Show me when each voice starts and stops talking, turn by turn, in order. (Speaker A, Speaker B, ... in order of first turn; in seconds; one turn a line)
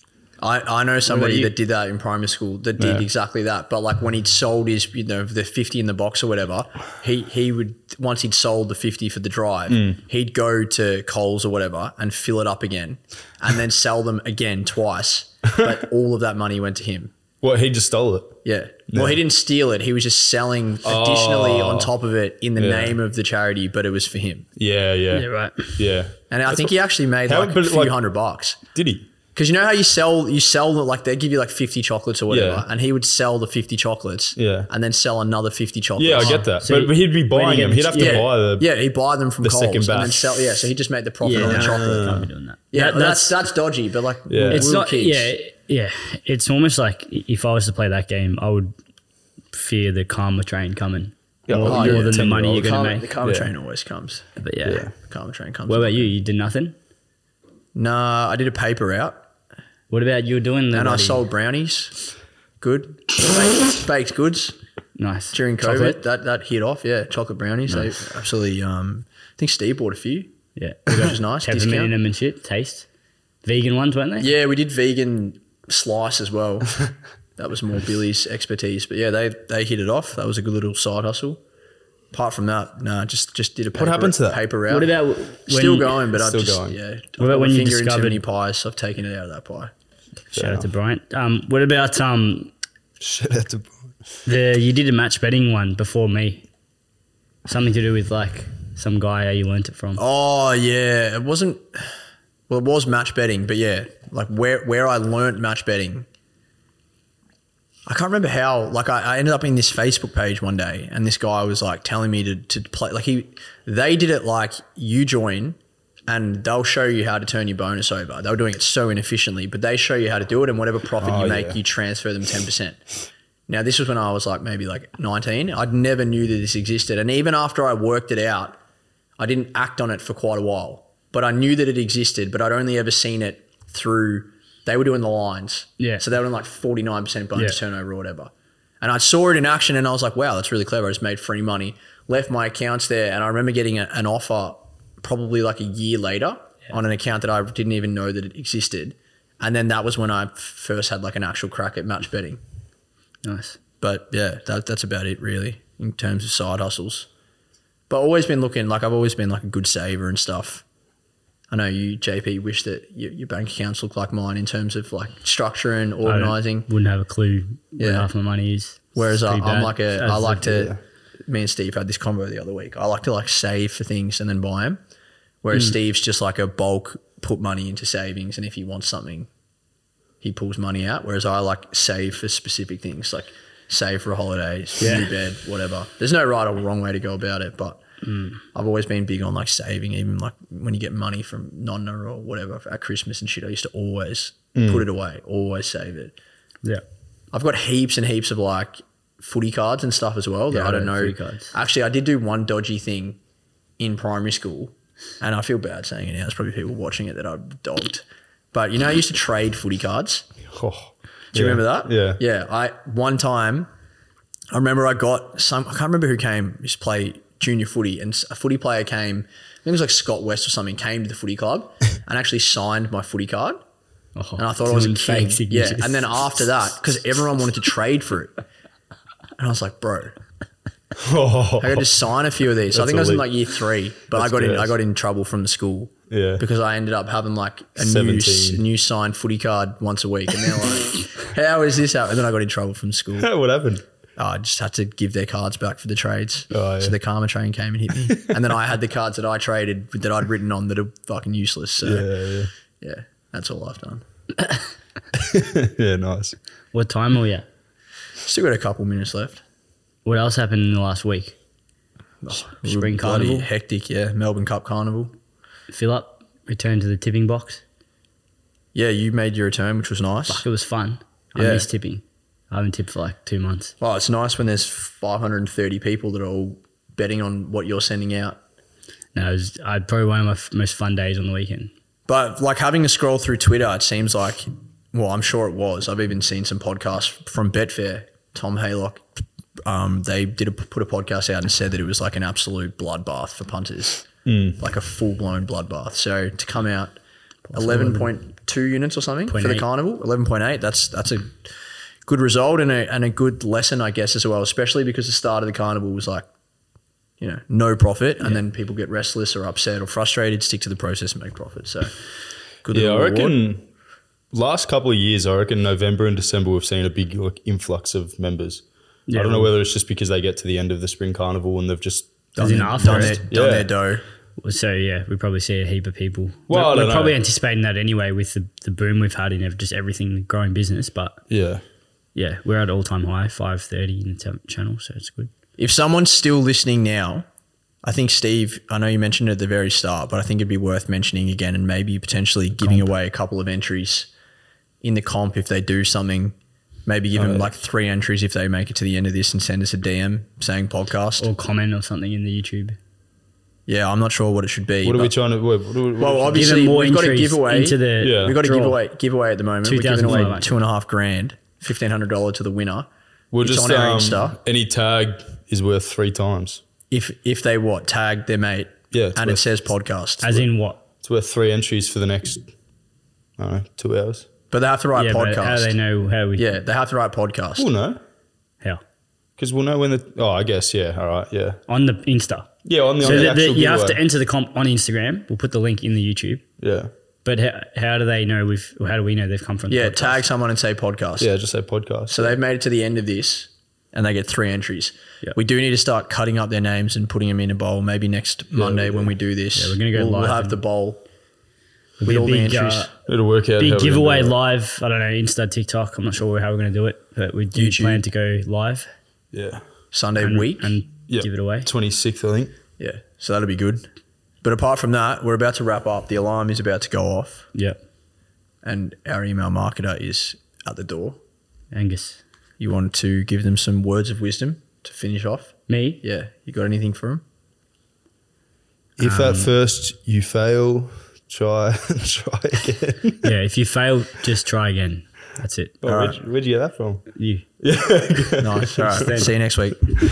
Speaker A: 0.4-17.1
Speaker B: 1.0-1.5
Speaker C: 2.8-3.0
Speaker C: 9.7-10.0
Speaker C: 17.4-19.2
Speaker A: 18.4-24.5
Speaker C: 20.8-21.9
Speaker C: 22.6-23.0
Speaker C: 24.6-28.0
Speaker B: 25.1-25.8
Speaker A: 26.3-28.6
Speaker C: 28.7-29.1
Speaker A: 29.3-36.5
Speaker C: 32.3-32.6
Speaker C: 34.4-34.7
Speaker C: 36.0-38.7
Speaker B: 36.6-38.2
Speaker A: 37.9-45.3
Speaker C: 39.4-40.5
Speaker B: 41.2-43.4
Speaker C: 41.3-42.3
Speaker C: 44.3-44.7
Speaker B: 44.5-48.7
Speaker B: 49.5-53.1
Speaker C: 51.5-53.5
Speaker A: 51.5-54.2
Speaker B: 54.4-54.9
Speaker C: 54.6-54.9
Speaker A: 55.0-56.1
Speaker B: 55.7-56.8
Speaker A: 57.7-59.2
Speaker B: 59.9-61.2
Speaker A: 60.7-61.9
Speaker A: 62.6-64.5
Speaker B: 65.0-66.0
Speaker A: 65.3-70.3
Speaker B: 70.5-72.9
Speaker A: 70.9-71.9
Speaker B: 73.4-74.3
Speaker A: 74.2-76.8
Speaker A: 77.4-81.4
Speaker A: 82.1-84.9
Speaker C: 83.7-84.4
Speaker B: 84.7-86.1
Speaker A: 85.5-89.7
Speaker C: 86.2-86.8
Speaker B: 87.2-88.2
Speaker B: 90.3-92.5
Speaker C: 90.3-90.7
Speaker C: 93.0-93.9
Speaker B: 94.2-96.4
Speaker B: 97.4-100.0
Speaker A: 100.0-101.9
Speaker A: 102.5-106.1
Speaker A: 107.9-122.8
Speaker C: 121.0-121.6
Speaker A: 123.5-128.6
Speaker A: 129.2-152.4
Speaker B: 153.2-153.6
Speaker A: 153.8-157.1
Speaker A: 157.9-160.6
Speaker A: 161.5-166.7
Speaker B: 166.0-170.7
Speaker A: 167.8-168.1
Speaker A: 168.9-174.8
Speaker A: 175.4-179.3
Speaker A: 180.2-187.8
Speaker B: 184.8-185.1
Speaker B: 188.0-188.4
Speaker A: 188.5-196.1
Speaker C: 194.5-194.8
Speaker A: 197.3-203.2
Speaker B: 200.5-201.5
Speaker A: 203.8-210.3
Speaker C: 210.5-212.2
Speaker A: 211.3-213.7
Speaker A: 214.5-223.6
Speaker B: 224.1-226.5
Speaker A: 224.4-228.4
Speaker A: 229.4-230.2
Speaker C: 231.0-232.0
Speaker A: 231.6-243.3
Speaker C: 232.7-233.4
Speaker C: 234.1-234.7
Speaker C: 236.1-236.4
Speaker C: 237.8-238.6
Speaker C: 243.2-243.8
Speaker A: 244.2-252.1
Speaker C: 246.5-246.9
Speaker C: 251.8-252.5
Speaker A: 252.8-254.0
Speaker C: 255.1-256.4
Speaker B: 256.7-257.4
Speaker A: 258.2-259.4
Speaker B: 260.0-261.4
Speaker A: 262.2-265.1
Speaker B: 262.3-263.5
Speaker B: 265.7-267.6
Speaker A: 268.7-270.4
Speaker B: 270.3-273.7
Speaker A: 271.3-271.7
Speaker A: 273.8-278.4
Speaker B: 279.1-281.7
Speaker A: 282.1-289.0
Speaker A: 289.6-294.1
Speaker C: 294.2-294.6
Speaker A: 294.6-297.0
Speaker B: 297.4-298.1
Speaker A: 297.5-301.5
Speaker B: 299.3-299.6
Speaker A: 302.1-306.2
Speaker A: 307.2-311.9
Speaker A: 312.6-313.4
Speaker C: 312.7-313.6
Speaker C: 314.3-322.1
Speaker B: 319.1-319.5
Speaker A: 322.4-324.0
Speaker B: 322.4-323.2
Speaker C: 322.7-323.7
Speaker B: 324.4-331.2
Speaker C: 326.5-327.2
Speaker C: 331.3-331.6
Speaker B: 332.1-335.3
Speaker A: 335.6-337.2
Speaker A: 337.8-344.1
Speaker B: 342.6-342.9
Speaker A: 344.8-346.3
Speaker A: 346.9-351.3
Speaker C: 347.1-347.5
Speaker B: 351.2-352.8
Speaker A: 353.7-355.1
Speaker C: 354.8-356.6
Speaker A: 356.0-362.9
Speaker B: 356.3-358.8
Speaker C: 358.0-358.4
Speaker B: 359.6-360.5
Speaker C: 363.3-366.6
Speaker A: 363.4-364.4
Speaker A: 366.9-370.4
Speaker C: 368.9-369.5
Speaker B: 370.2-370.8
Speaker C: 371.0-372.5
Speaker C: 373.4-374.2
Speaker A: 374.5-375.8
Speaker B: 374.9-376.6
Speaker A: 376.4-377.7
Speaker C: 377.6-378.0
Speaker C: 379.4-381.6
Speaker B: 381.7-386.4
Speaker C: 382.6-384.0
Speaker C: 386.6-386.9
Speaker B: 387.2-390.2
Speaker A: 389.7-391.3
Speaker C: 391.2-392.2
Speaker A: 392.1-401.0
Speaker C: 398.6-399.1
Speaker B: 399.5-400.6
Speaker B: 402.0-402.9
Speaker A: 402.0-402.9
Speaker C: 403.1-404.4
Speaker B: 403.6-408.9
Speaker A: 407.5-408.0
Speaker C: 409.3-409.6
Speaker A: 409.9-410.7
Speaker B: 410.2-411.7
Speaker C: 411.1-412.5
Speaker A: 412.8-413.9
Speaker A: 414.4-417.5
Speaker A: 418.6-421.2
Speaker B: 421.7-422.2
Speaker A: 422.6-427.2
Speaker B: 425.7-426.0
Speaker C: 429.0-433.3
Speaker B: 429.0-429.5
Speaker B: 433.2-435.8
Speaker C: 435.8-437.1
Speaker A: 435.8-436.2
Speaker B: 437.1-437.4
Speaker C: 437.6-439.0
Speaker A: 438.4-439.8
Speaker B: 438.8-439.3